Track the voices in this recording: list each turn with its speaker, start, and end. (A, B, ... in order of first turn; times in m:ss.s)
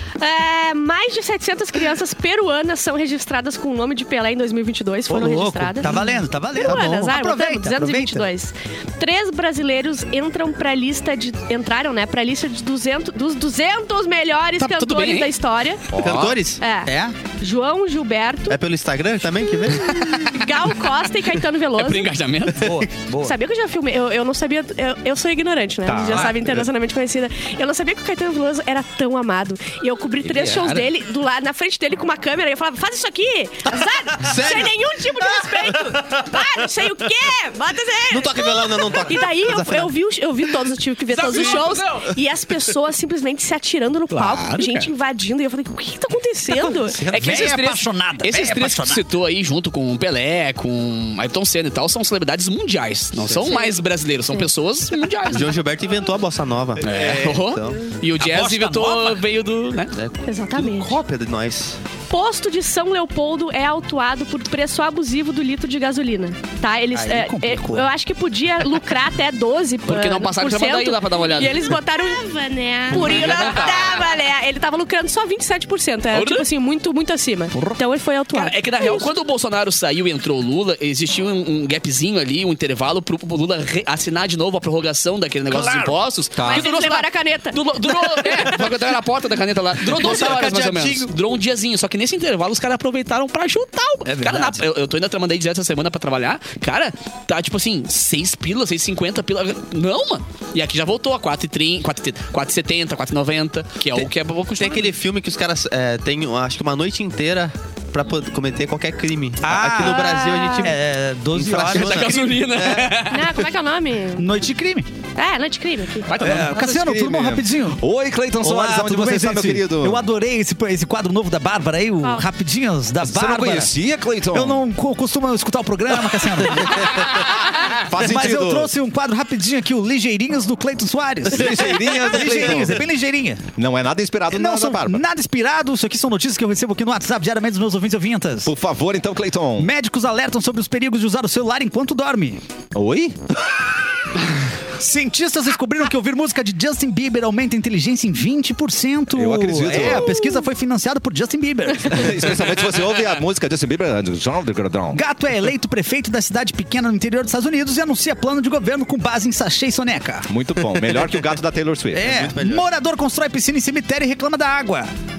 0:00.2-0:05.9 A
0:05.1-0:08.3 B
0:06.5-0:15.9 A
0:06.6-0:07.1 C
0:14.6-0:15.3 D
0:15.9-0:16.4 E
0:16.0-0:16.6 C
0:16.6-0:18.6 A
0:16.8-0:17.2 B
0:18.5-0:20.1 C
0:19.7-0:20.4 D
0:20.3-0:22.1 A
0:21.8-0:22.7 D
0:22.5-0:23.4 B
0:23.2-0:47.0 A
0:25.8-0:26.6 E
0:30.2-0:30.8 E
0:34.2-0:34.9 C
0:35.6-0:36.4 C
0:38.1-0:39.9 C
0:41.1-0:42.1 D
0:44.1-0:44.9 D
0:46.9-0:47.3 C
0:47.1-0:49.0 B
0:47.1-0:55.6 D
0:53.4-0:53.7 A
0:55.3-0:57.8 C
0:56.8-0:59.9 D
0:58.2-0:59.2 B
0:59.9-1:01.8 C
1:00.2-1:01.0 A
1:02.1-1:19.1 A
1:06.9-1:07.9 B
1:09.8-1:11.8 D
1:12.9-1:14.1 D
1:16.1-1:16.5 D
1:17.5-1:17.8 B
1:18.3-1:44.9 D
1:25.5-1:26.0 B
1:26.4-1:26.7 E
1:26.4-1:27.6 A
1:28.0-1:28.7 B
1:29.8-1:31.2 B
1:34.0-1:34.6 B
1:43.9-1:50.8 C
1:49.4-1:52.4 B
1:49.8-1:50.7 A
1:51.3-1:53.3 C
1:51.7-1:53.4 D
1:53.1-1:54.3 A
1:54.2-1:54.9 B
1:55.2-1:56.2 A
1:56.0-1:56.7 D
1:56.2-1:57.8 B
1:56.2-2:00.0 E
1:58.4-2:03.7 B
2:03.0-2:04.6 E
2:04.3-2:13.5 B
2:06.5-2:08.7 E
2:11.3-2:12.8 E
2:13.6-2:15.0 E
2:14.3-2:18.5 B
2:18.4-2:19.7 E
2:19.6-2:22.4 B
2:22.7-2:23.2 E
2:24.8-2:32.4 B
2:29.1-2:30.2 E
2:31.9-2:35.0 E
2:34.9-2:40.3 B
2:40.3-2:42.3 E
2:41.9-2:44.9 B
2:42.0-2:42.6 C